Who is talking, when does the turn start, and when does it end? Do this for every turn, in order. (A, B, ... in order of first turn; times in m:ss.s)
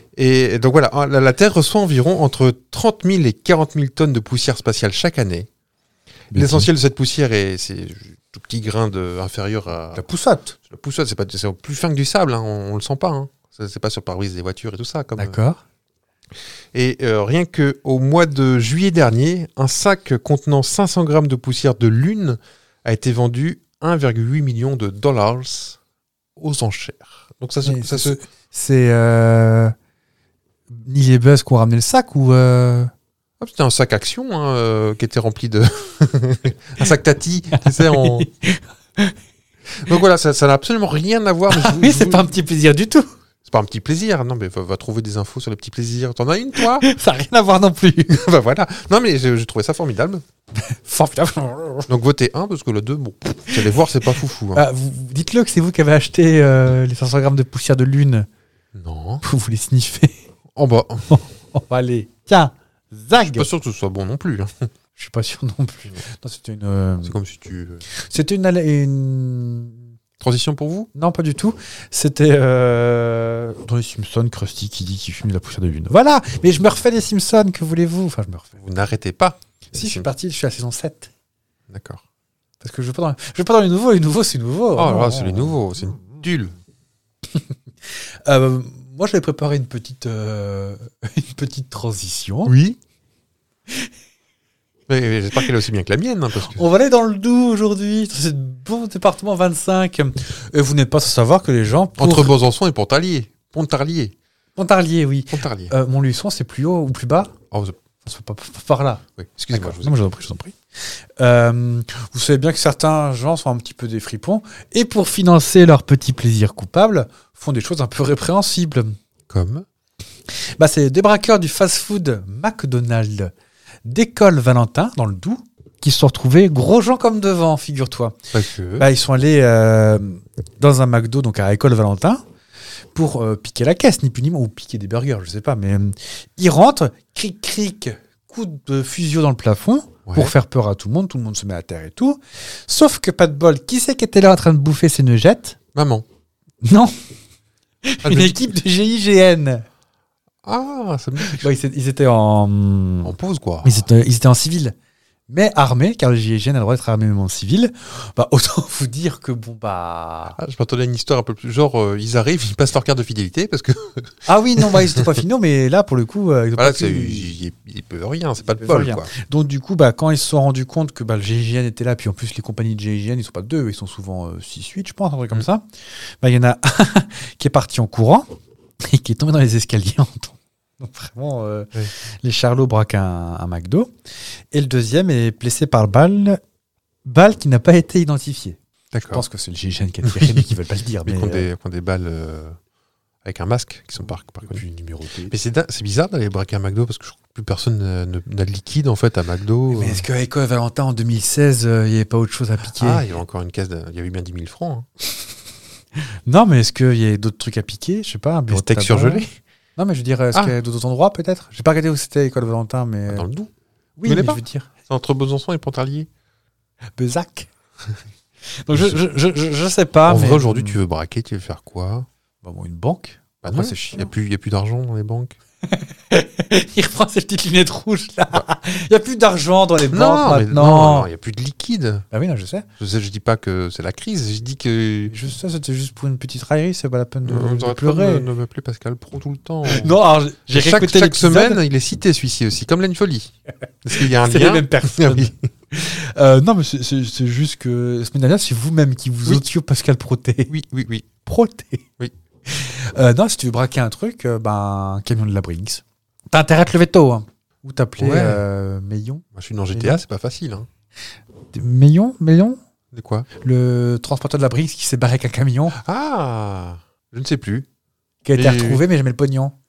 0:00.2-0:05.5 A
0:06.3-0:06.7 B
0:06.3-0:10.0 A
0:10.0-0:10.6 B
0:10.6-0:15.4 A
0:15.2-0:15.6 B
0:16.7-0:25.8 A
0:26.4-0:28.2 A
0:27.6-0:29.8 B
0:30.7-0:32.9 B
0:33.4-0:38.3 A
0:37.5-0:39.2 B
0:39.7-0:42.3 A
0:41.5-0:43.1 B
0:43.4-0:46.9 A
0:46.8-0:48.2 B
0:48.1-0:50.2 A
0:50.6-0:51.9 B
0:51.9-0:54.6 A
0:54.5-0:58.3 B
0:58.8-0:59.2 A
0:59.2-1:00.2 B
1:00.6-1:01.2 A
1:01.1-1:03.5 B
1:03.3-1:04.7 A
1:05.0-1:07.1 B
1:07.0-1:07.8 A
1:07.9-1:09.8 B
1:10.2-1:10.9 A
1:11.0-1:18.6 B
1:18.6-1:20.1 A
1:19.7-1:21.1 B
1:21.7-1:22.0 A
1:22.6-1:25.6 B
1:24.8-1:26.6 A
1:27.3-1:32.5 B
1:32.4-1:32.8 A
1:34.9-1:36.6 A
1:36.5-1:42.3 B
1:42.0-1:44.2 A
1:44.6-1:47.3 B
1:45.3-1:45.7 A
1:47.5-1:47.8 A
1:48.0-1:50.6 B
1:49.2-1:50.0 A
1:51.2-1:59.0 B
1:59.3-1:59.7 A
2:00.6-2:03.3 B
2:03.8-2:08.2 B
2:08.3-2:08.9 A
2:08.8-2:12.2 B
2:13.0-2:25.6 B
2:20.1-2:20.3 A
2:25.8-2:26.1 A
2:26.6-2:27.0 B
2:27.8-2:29.6 B
2:28.0-2:28.5 A
2:30.4-2:31.5 A
2:31.2-2:33.1 B
2:33.0-2:33.9 A
2:33.6-2:34.8 B
2:35.3-2:40.4 B
2:40.4-2:44.1 A
2:44.3-2:47.3 B
2:44.6-2:45.1 A
2:46.6-2:49.1 A
2:48.6-2:55.6 B
2:56.2-2:58.3 B
2:58.8-3:01.7 B
3:02.2-3:03.9 B
3:04.5-3:06.4 B
3:07.0-3:08.6 B
3:08.9-3:09.2 A
3:09.1-3:11.5 B
3:10.0-3:10.5 A
3:11.0-3:12.6 A
3:13.2-3:14.6 A
3:14.1-3:15.4 B
3:15.3-3:20.0 A
3:19.7-3:23.0 B
3:22.8-3:24.9 A
3:26.3-3:33.3 B
3:28.5-3:29.3 A
3:33.1-3:33.5 A
3:34.0-3:34.7 B
3:34.0-3:36.1 A
3:37.0-3:37.5 B
3:38.6-3:40.8 B
3:40.1-3:42.1 A
3:42.4-3:44.0 B
3:43.4-3:45.4 A
3:45.7-3:51.1 B
3:49.9-3:52.1 A
3:52.1-3:52.7 B
3:52.8-3:55.2 A
3:55.1-3:58.3 B
3:57.2-4:05.3 A
3:59.7-4:01.6 B
4:04.2-4:10.5 B
4:10.5-4:11.1 A
4:11.2-4:11.9 B
4:12.5-4:20.0 B
4:18.0-4:18.4 A
4:19.3-4:20.7 A
4:21.5-4:22.6 B
4:22.9-4:23.3 A
4:23.4-4:25.8 B
4:25.7-4:27.7 A
4:28.2-4:29.5 B
4:28.4-4:28.8 A